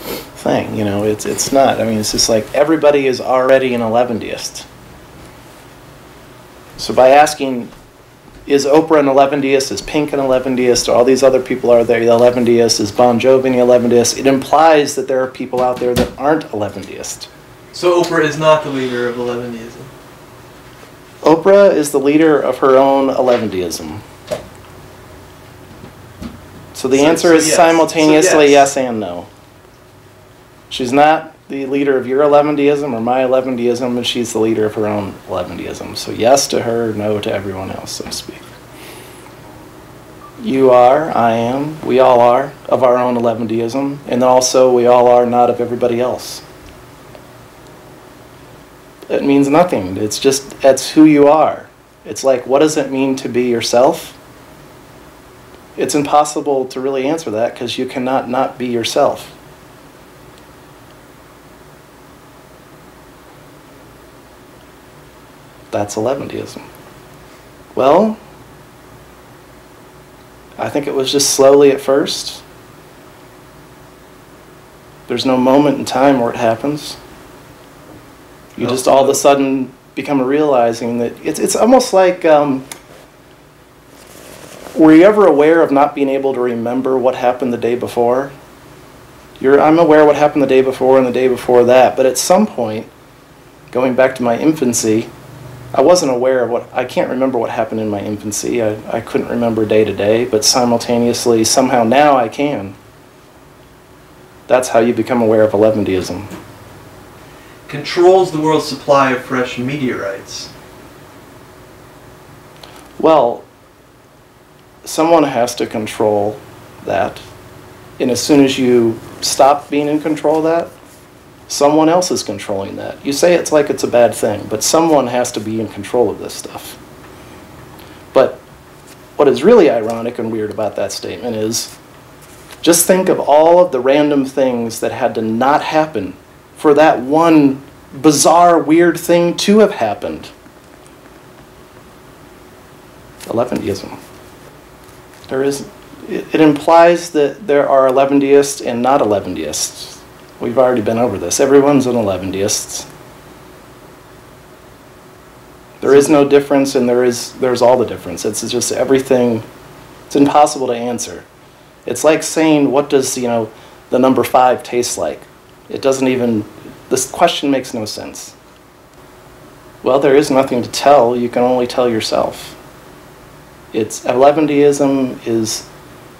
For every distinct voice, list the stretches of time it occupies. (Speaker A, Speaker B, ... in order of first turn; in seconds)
Speaker A: 0.3-4.7, 6.8-7.7, 8.5-17.3, 21.2-24.0, 26.7-29.3, 30.7-38.5, 40.4-46.4, 49.1-54.2, 55.8-59.4, 65.7-66.6, 67.7-68.2, 70.6-72.4, 75.1-77.0, 78.6-82.6, 84.7-88.3, 89.4-92.9, 93.7-95.1, 95.7-102.7, 104.5-106.3, 113.0-113.5, 114.8-117.2, 118.0-120.7, 121.5-126.8, 128.1-128.4, 129.2-131.7, 132.6-140.3, 143.2-144.0, 145.3-152.9, 155.8-159.4, 160.1-161.2, 161.8-168.3, 169.8-172.6, 173.7-175.7
Speaker B: 17.7-19.9, 26.9-28.7, 78.6-79.2, 107.7-110.5, 155.9-156.2